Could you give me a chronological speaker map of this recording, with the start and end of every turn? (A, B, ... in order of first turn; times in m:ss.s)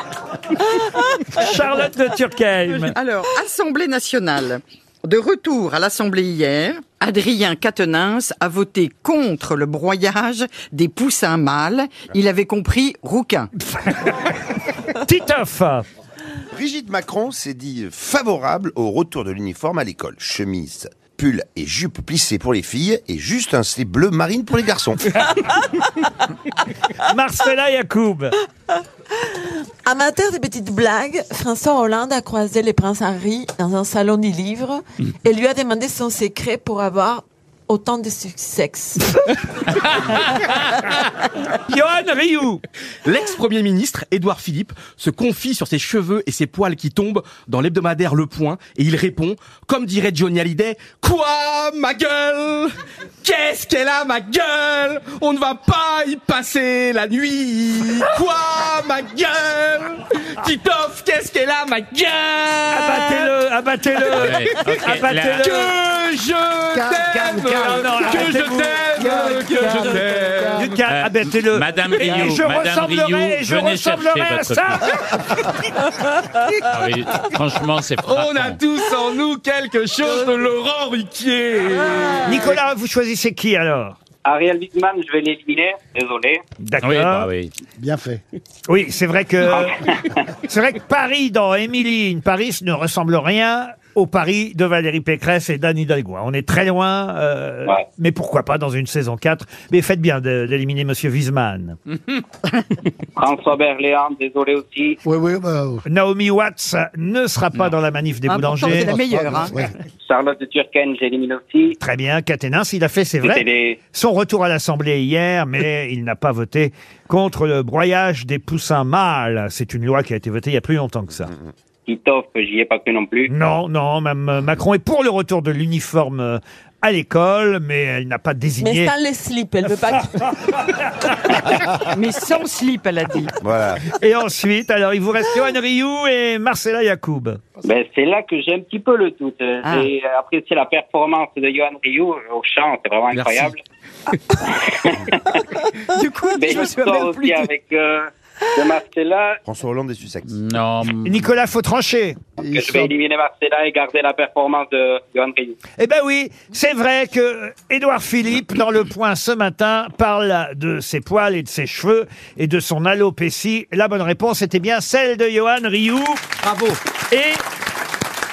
0:01.3-0:03.0 A
0:02.8-0:13.5 B
0:13.7-0:14.1 A
0:14.9-0:15.8 A
0:16.5-0:25.1 C
0:27.0-0:28.3 A
0:29.3-0:39.2 D
0:40.0-0:40.5 E
0:41.5-0:42.6 A
0:43.0-1:03.3 F
1:02.7-1:05.7 A
1:04.2-1:05.5 E
1:05.4-1:10.7 F
1:06.7-1:08.4 G
1:07.3-1:08.8 A
1:08.9-1:10.8 G
1:10.5-1:15.0 A
1:10.9-1:15.0 E
1:16.6-1:18.6 E
1:18.0-1:22.5 F
1:22.2-1:24.0 A
1:24.2-1:26.4 H
1:26.6-1:27.3 A
1:26.8-1:27.5 E
1:27.8-1:28.2 G
1:28.7-1:29.8 A
1:29.5-1:30.2 H
1:30.4-1:41.8 A
1:43.2-1:45.0 H
1:45.0-1:45.8 G
1:45.8-1:49.0 A
1:48.3-1:49.5 B
1:48.9-1:49.7 G
1:50.0-1:51.8 H
1:51.8-2:01.3 A
1:53.2-1:53.8 H
2:01.9-2:03.3 H
2:03.3-2:08.9 A
2:08.6-2:10.7 D
2:11.9-2:13.3 B
2:13.4-2:13.8 C
2:13.9-2:17.4 A
2:17.6-2:23.6 H
2:19.6-2:19.9 B
2:23.1-2:23.4 F
2:24.5-2:25.2 H
2:25.9-2:27.5 B
2:26.3-2:29.4 H
2:29.4-2:30.3 C
2:30.3-2:31.2 E
2:31.0-2:32.2 A
2:32.4-2:32.9 G
2:32.5-2:35.6 H
2:35.8-2:46.6 A
2:47.1-2:47.4 A